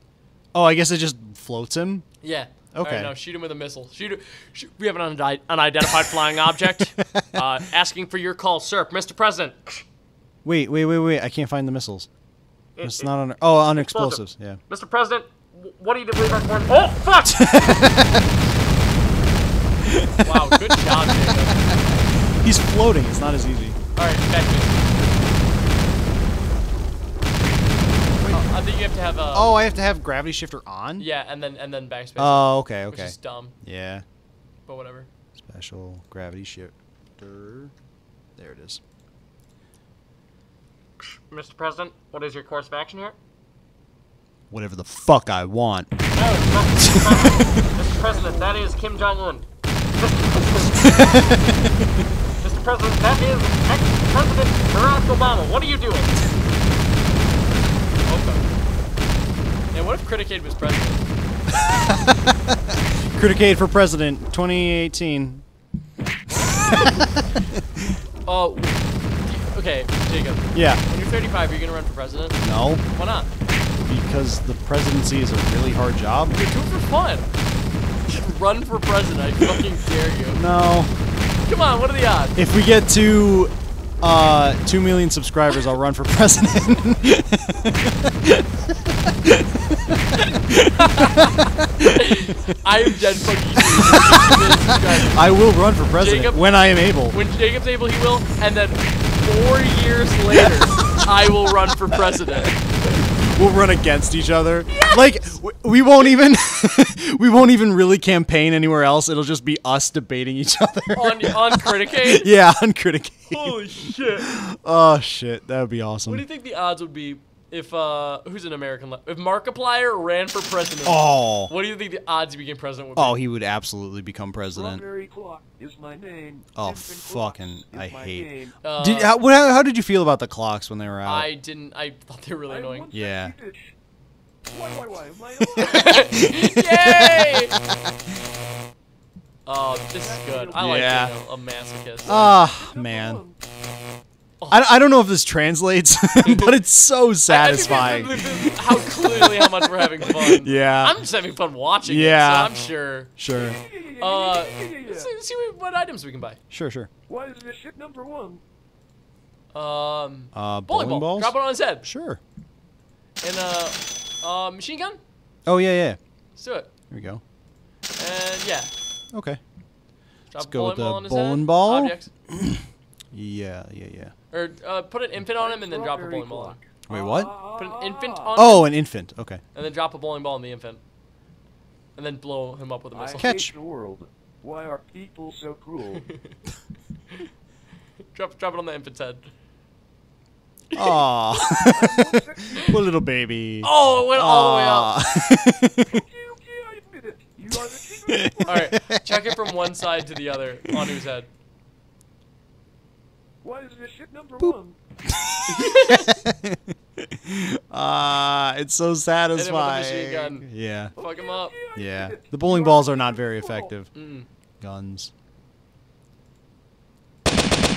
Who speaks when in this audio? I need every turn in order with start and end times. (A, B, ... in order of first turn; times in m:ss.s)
0:00.5-0:02.1 A
0:02.2-0:09.8 B
0:02.8-0:03.1 A
0:10.4-0:12.1 A
0:12.8-0:13.1 B
0:12.8-0:14.6 A
0:13.8-0:17.6 B
0:17.3-0:18.2 A
0:19.8-0:23.8 A
0:20.2-0:21.6 B
0:24.0-0:24.9 B
0:28.3-0:29.6 B
0:29.3-0:31.1 A
0:31.0-0:33.5 B
0:32.2-0:34.0 A
0:34.7-0:35.1 B
0:35.4-0:37.7 A
0:38.4-0:38.8 A
0:41.3-0:43.2 B
0:44.5-0:45.9 A
0:46.1-0:51.3 B
0:46.8-0:47.6 A
0:51.0-0:51.6 A
0:52.4-0:56.2 B
0:58.1-0:58.4 B
0:59.7-1:01.0 B
1:01.5-1:05.4 A
1:06.3-1:07.2 B
1:06.4-1:07.9 A
1:08.3-1:13.3 B
1:10.5-1:10.8 A
1:12.4-1:12.8 A
1:13.8-1:16.4 A
1:16.3-1:17.3 B
1:18.1-1:20.4 B
1:20.3-1:21.0 A
1:21.4-1:22.4 B
1:22.4-1:32.3 A
1:30.8-1:35.3 B
1:33.6-1:34.5 A
1:35.1-1:37.2 A
1:36.0-1:36.4 B
1:37.1-1:42.6 B
1:43.1-1:56.2 A
1:44.7-1:45.4 B
1:50.9-1:52.3 B
1:53.3-1:54.3 B
1:56.1-2:03.2 B
2:00.8-2:01.5 A
2:03.0-2:04.8 A
2:04.5-2:08.5 C
2:06.6-2:11.3 A
2:08.6-2:09.1 B
2:11.0-2:12.9 B
2:12.5-2:13.7 C
2:12.9-2:13.3 A
2:14.5-2:16.1 C
2:15.5-2:17.6 B
2:16.1-2:17.5 A
2:19.5-2:22.3 B
2:20.0-2:20.8 C
2:20.6-2:21.1 A
2:22.1-2:23.2 A
2:22.1-2:23.4 C
2:24.5-2:31.0 A
2:26.2-2:26.6 B
2:27.3-2:33.1 B
2:31.8-2:32.5 A
2:33.2-2:33.6 A
2:33.3-2:35.1 C
2:34.0-2:36.4 B
2:36.5-2:36.9 A
2:37.1-2:38.4 C
2:39.5-2:41.9 B
2:40.3-2:42.2 A
2:43.2-2:45.0 B
2:45.5-2:46.0 A
2:46.4-2:46.7 B
2:46.9-2:47.2 A
2:48.0-2:48.7 B
2:49.1-2:49.4 A
2:50.3-2:52.1 B
2:50.4-2:54.1 A
2:54.3-2:56.6 B
2:55.3-2:58.3 C
2:56.9-2:57.3 A
2:57.6-2:58.7 B
2:58.4-2:59.4 A
2:59.6-3:00.8 B
3:02.0-3:03.4 B
3:02.9-3:06.1 C
3:03.2-3:03.5 A
3:05.9-3:06.4 B
3:08.1-3:09.3 B
3:10.7-3:11.9 B
3:10.8-3:16.0 A
3:11.7-3:12.6 C
3:12.5-3:12.8 B
3:13.6-3:15.0 B
3:15.9-3:18.7 C
3:17.5-3:19.4 A
3:18.5-3:21.3 B
3:23.4-3:24.8 C
3:24.4-3:30.9 A
3:25.5-3:26.2 B
3:29.3-3:31.6 B
3:31.0-3:33.7 C
3:31.7-3:33.9 A
3:34.0-3:34.3 B
3:34.6-3:35.1 A